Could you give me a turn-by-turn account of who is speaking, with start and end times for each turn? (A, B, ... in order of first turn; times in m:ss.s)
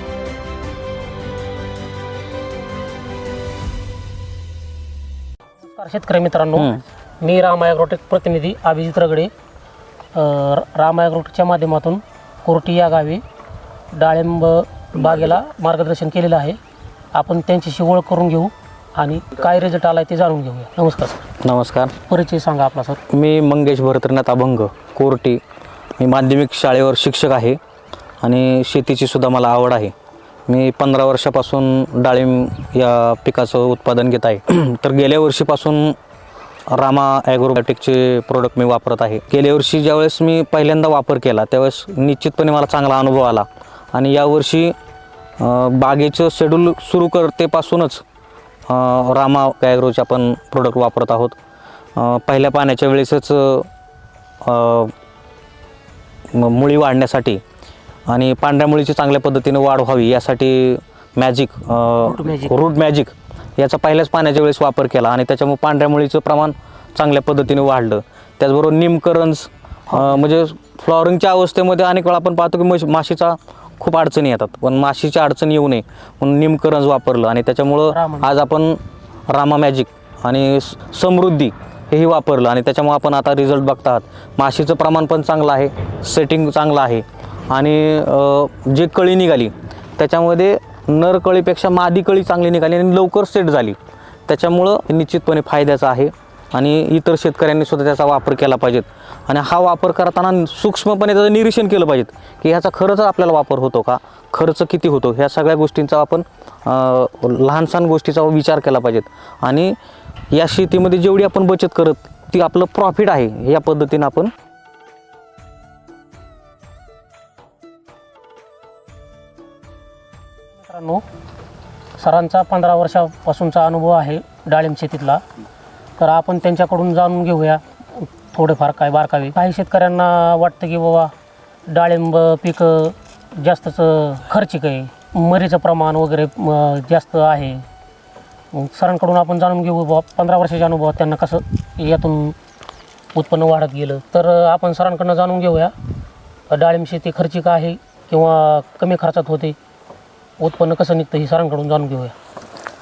0:05.6-0:09.3 A
0:06.6-0:06.8 B
0:10.1-0:13.2 A
0:13.9-0:16.6 A
0:17.1-0:21.2 A
0:21.4-0:21.9 B
0:22.0-0:23.0 A
0:23.1-0:25.4 B
0:26.0-0:27.6 B
0:28.2-0:29.9 B
0:30.5-0:36.0 B
0:36.7-0:44.7 B
0:45.4-0:48.0 B
0:48.7-0:51.3 B
0:52.0-0:53.7 B
0:54.4-0:54.9 B
0:56.3-0:57.4 B
0:58.1-1:49.8 B
1:02.0-1:02.6 A
1:17.9-1:18.3 A
1:50.3-1:54.3 B
2:00.6-2:01.0 A
2:02.0-2:05.2 A
2:06.0-2:11.1 A
2:11.7-2:17.6 A
2:18.5-2:22.4 A
2:23.1-2:25.7 A
2:26.5-2:29.6 A
2:30.4-2:32.1 A